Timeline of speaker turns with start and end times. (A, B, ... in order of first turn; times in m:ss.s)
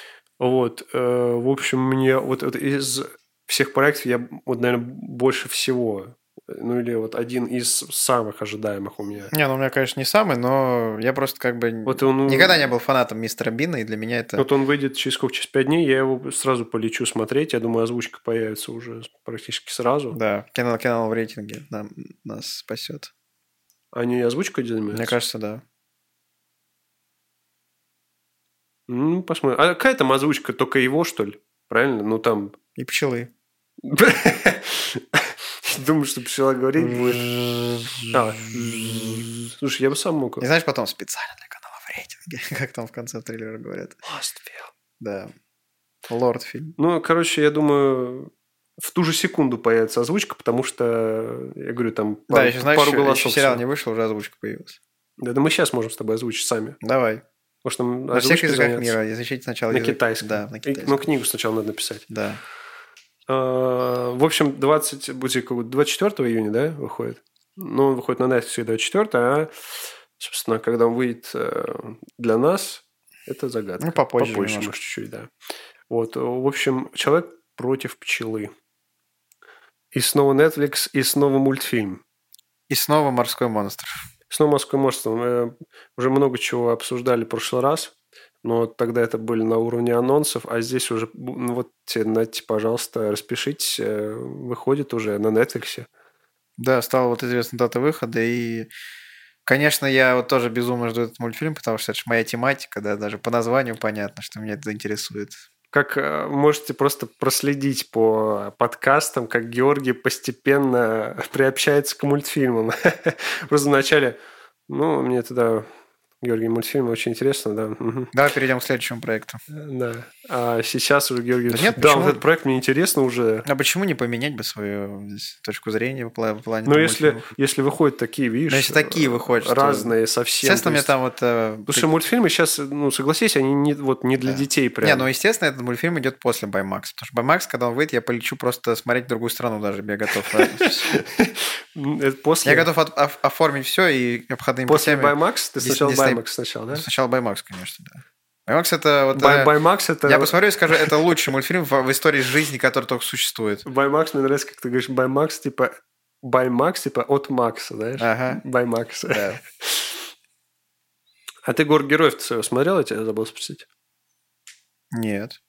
0:00.4-0:09.3 A
0:09.3-0:14.5 B
0:11.8-0:12.7 A
0:14.4-0:20.2 A
0:20.1-0:23.1 B
0:23.9-0:25.2 A
0:24.9-0:25.6 B
0:28.9-0:32.6 A
0:32.8-0:33.3 B
0:33.8-0:37.3 A
0:36.8-0:39.2 B
0:38.1-0:40.5 A
0:40.4-0:44.0 B
0:44.0-0:44.7 A
0:45.0-0:45.3 B
0:46.1-0:46.8 B
0:46.8-0:53.6 A
0:52.3-0:54.8 B
0:55.2-0:56.8 A
0:56.8-0:57.2 B
0:57.6-0:59.0 A
0:58.1-1:01.0 B
0:59.7-1:02.1 A
1:02.1-1:02.4 B
1:03.3-1:15.3 A
1:13.8-1:14.7 B
1:15.9-1:18.5 A
1:19.9-1:22.0 A
1:22.7-1:23.9 B
1:24.3-1:35.9 A
1:36.6-1:38.7 B
1:39.4-1:45.4 B
1:45.7-1:55.7 A
1:56.2-1:58.1 A
1:58.1-1:59.4 B
1:59.5-2:03.4 A
2:01.5-2:02.2 B
2:03.4-2:07.3 B
2:06.6-2:10.9 A
2:08.5-2:11.9 B
2:11.7-2:15.1 A
2:14.2-2:21.0 B
2:20.3-2:22.7 A
2:22.4-2:26.2 B
2:24.7-2:26.8 A
2:26.7-2:29.5 B
2:29.1-2:31.0 A
2:30.0-2:33.6 B
2:33.6-2:40.1 A
2:38.0-2:38.4 B
2:39.1-2:39.4 B
2:41.4-2:43.7 A
2:44.9-2:45.4 B